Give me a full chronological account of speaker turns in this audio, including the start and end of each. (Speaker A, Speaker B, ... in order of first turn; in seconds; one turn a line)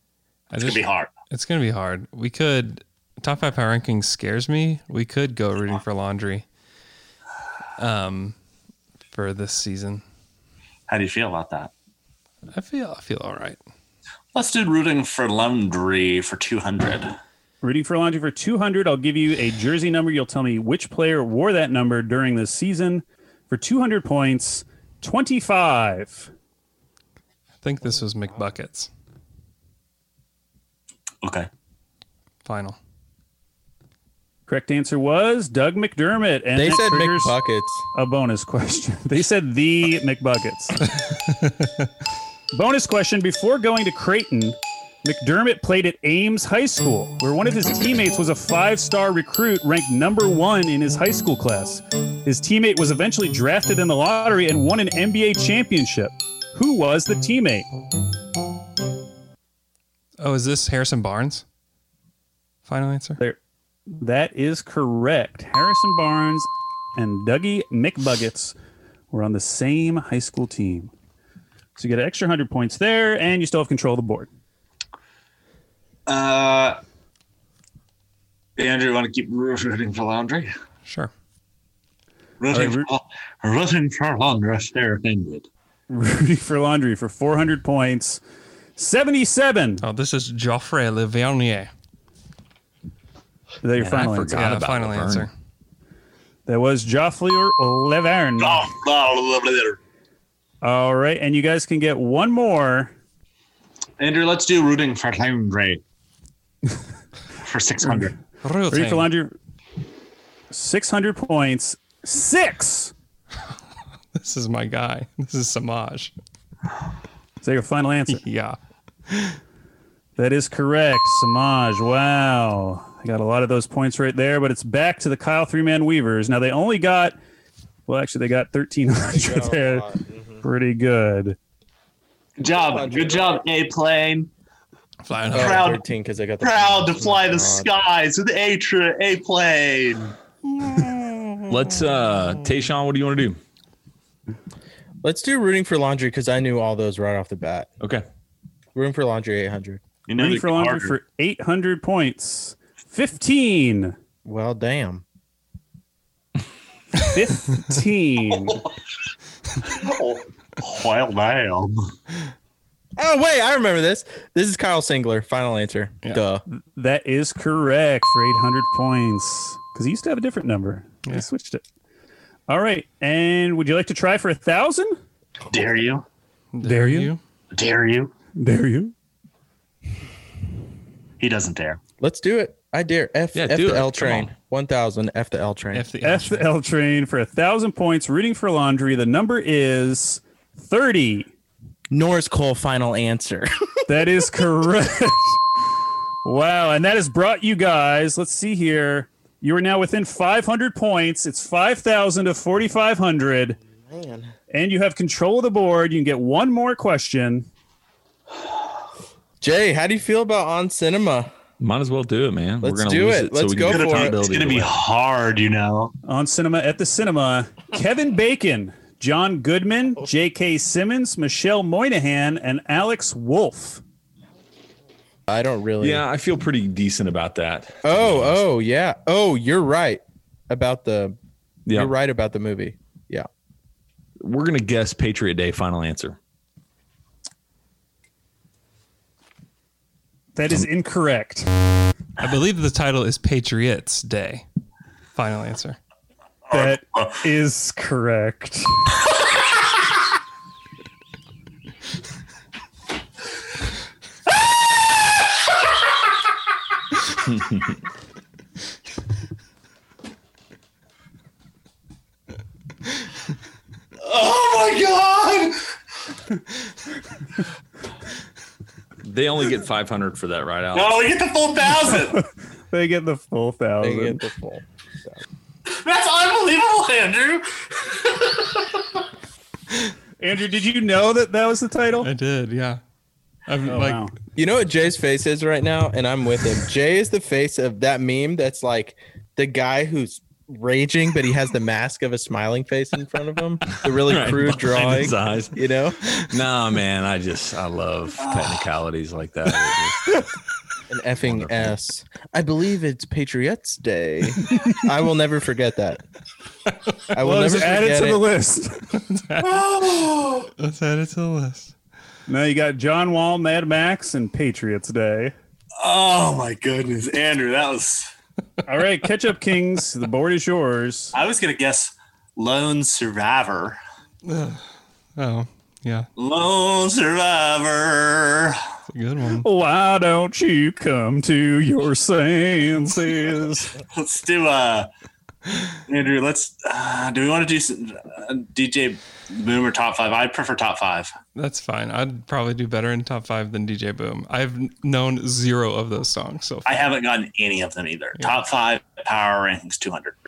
Speaker A: 0.5-6.4
Speaker B: 0.6-1.1
Speaker A: 7.8-8.4
Speaker A: 9.1-10.0
Speaker B: 10.9-11.7
Speaker A: 12.5-13.6
Speaker B: 14.3-17.1
Speaker C: 17.6-26.3
Speaker A: 27.6-28.9
Speaker B: 31.2-31.5
Speaker A: 32.4-32.8
Speaker C: 34.5-37.4
Speaker D: 36.5-37.9
Speaker C: 37.9-40.8
Speaker A: 41.4-41.7
Speaker C: 42.5-57.7
Speaker A: 60.2-61.4
Speaker A: 62.6-63.2
Speaker C: 63.9-68.5
Speaker C: 69.1-70.9
Speaker C: 71.8-74.3
Speaker B: 76.1-76.8
Speaker B: 78.6-80.5
Speaker A: 80.9-81.1
Speaker B: 82.4-85.5
Speaker C: 82.5-82.9
Speaker C: 85.9-88.2
Speaker C: 88.8-89.8
Speaker A: 89.8-91.7
Speaker C: 93.6-94.4
Speaker E: 93.8-95.3
Speaker A: 94.3-95.3
Speaker C: 96.5-98.7
Speaker B: 98.4-99.8
Speaker C: 100.6-102.9
Speaker B: 104.0-105.8
Speaker B: 107.4-108.1
Speaker A: 108.4-109.1
Speaker C: 108.7-109.3
Speaker C: 110.5-112.9
Speaker A: 114.1-116.1
Speaker C: 117.4-118.2
Speaker A: 118.1-118.6
Speaker A: 119.1-119.4
Speaker C: 120.2-127.2
Speaker C: 127.9-129.8
Speaker D: 129.1-130.4
Speaker C: 130.4-131.4
Speaker B: 132.4-134.3
Speaker D: 132.5-133.4
Speaker A: 135.1-135.7
Speaker D: 135.3-137.7
Speaker B: 135.3-135.8
Speaker B: 136.4-140.1
Speaker E: 141.5-143.4
Speaker D: 145.0-147.7
Speaker E: 147.8-148.1
Speaker D: 148.7-149.8
Speaker B: 150.1-150.9
Speaker C: 150.2-153.9
Speaker D: 154.2-155.0
Speaker C: 157.0-158.6
Speaker B: 159.6-161.9
Speaker D: 163.0-166.4
Speaker C: 166.5-171.6
Speaker C: 172.5-175.0
Speaker B: 175.5-176.1
Speaker A: 176.5-177.2
Speaker C: 176.6-177.1
Speaker B: 177.5-178.1
Speaker C: 178.4-178.9
Speaker B: 181.2-181.8
Speaker D: 182.0-185.9
Speaker E: 183.3-184.3
Speaker A: 185.7-186.5
Speaker C: 186.0-191.3
Speaker D: 191.9-193.8
Speaker C: 193.9-195.4
Speaker C: 196.2-203.6
Speaker D: 203.7-204.3
Speaker C: 204.5-207.5
Speaker D: 209.4-211.3
Speaker E: 211.6-214.8
Speaker D: 212.6-214.2
Speaker B: 213.7-215.9
Speaker C: 216.1-223.8
Speaker D: 225.3-226.0
Speaker E: 225.8-228.4
Speaker D: 227.8-231.2
Speaker E: 231.7-231.9
Speaker D: 231.7-233.3
Speaker E: 234.2-236.2
Speaker C: 240.3-241.5
Speaker A: 242.2-244.4
Speaker A: 245.1-245.8
Speaker B: 246.5-247.2
Speaker C: 246.5-249.0
Speaker E: 257.2-257.8
Speaker B: 264.0-265.7
Speaker E: 269.0-271.0
Speaker B: 270.7-272.2
Speaker C: 271.9-274.2
Speaker D: 273.8-275.2
Speaker B: 275.7-278.8
Speaker C: 280.2-282.1
Speaker A: 282.0-282.8
Speaker A: 283.5-284.1
Speaker C: 283.6-284.1
Speaker D: 284.4-296.0
Speaker E: 293.9-295.6
Speaker E: 296.2-300.2
Speaker B: 298.2-298.5
Speaker D: 300.9-306.0
Speaker E: 301.2-301.8
Speaker D: 307.1-308.2
Speaker C: 307.2-309.0
Speaker A: 308.9-309.6
Speaker B: 309.4-310.5
Speaker A: 310.6-311.7
Speaker C: 312.3-315.3
Speaker B: 315.8-318.1
Speaker C: 318.6-321.1
Speaker B: 321.1-323.8
Speaker A: 324.2-324.6
Speaker A: 325.2-326.1
Speaker B: 326.1-328.6
Speaker A: 328.9-329.4
Speaker C: 329.4-333.7
Speaker B: 333.9-334.9
Speaker B: 335.9-341.1
Speaker A: 341.3-346.6
Speaker B: 346.6-350.1